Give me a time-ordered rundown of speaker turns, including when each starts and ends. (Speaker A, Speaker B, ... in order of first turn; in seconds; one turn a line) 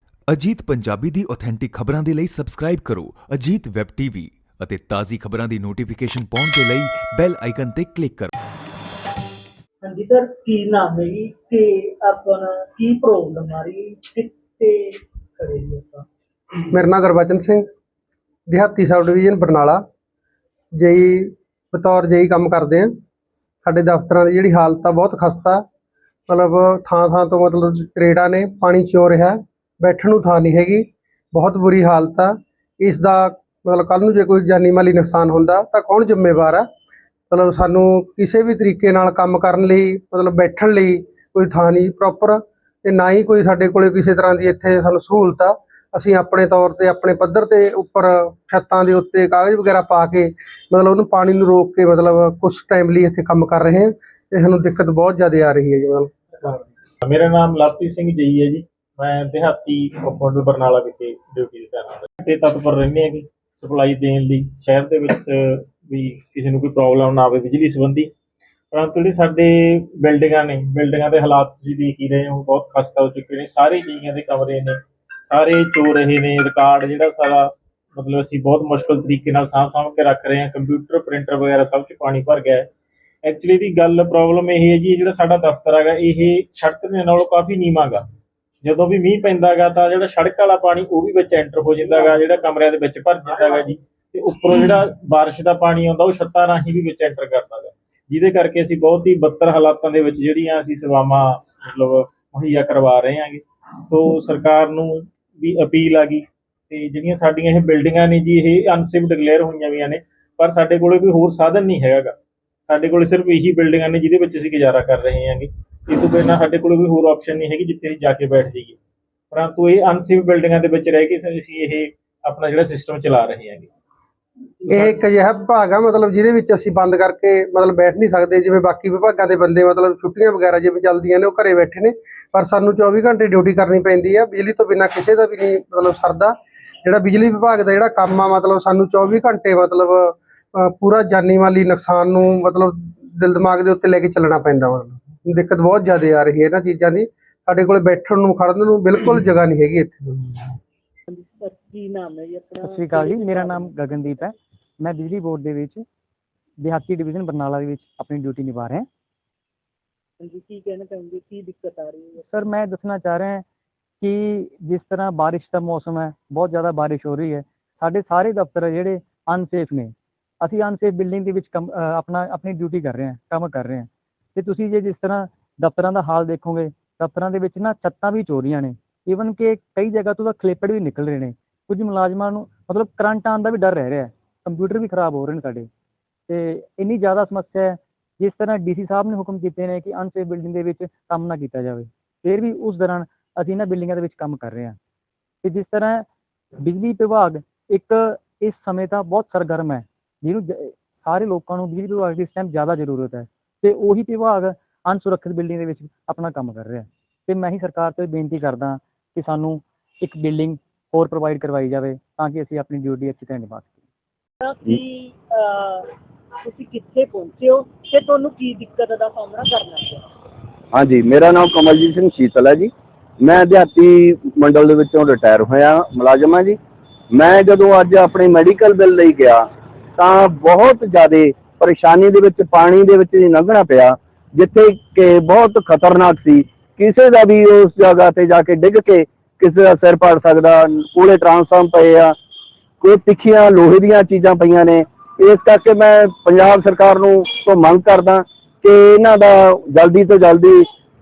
Speaker A: 0.3-8.3
Speaker B: 9.8-14.8
Speaker B: 15.4-16.0
Speaker C: 16.7-17.6
Speaker C: 18.5-19.8
Speaker C: 20.8-22.9
Speaker C: 23.6-25.6
Speaker C: 26.3-36.6
Speaker C: 37.3-56.6
Speaker D: 57.0-68.1
Speaker D: 68.7-82.7
Speaker D: 83.2-88.0
Speaker D: 88.6-112.1
Speaker D: 112.7-118.8
Speaker D: 119.3-123.7
Speaker D: 124.7-125.0
Speaker C: 124.7-136.3
Speaker C: 136.8-150.5
Speaker B: 151.1-154.3
Speaker E: 152.6-155.8
Speaker E: 156.6-158.9
Speaker B: 160.2-162.2
Speaker E: 162.3-163.4
Speaker E: 164.0-185.7
Speaker E: 186.3-194.8
Speaker E: 195.4-196.1
Speaker E: 196.6-213.8
Speaker B: 214.4-215.8
Speaker B: 216.4-220.0
Speaker F: 220.7-226.6
Speaker F: 227.1-229.4
Speaker F: 230.0-242.1
Speaker F: 242.8-250.7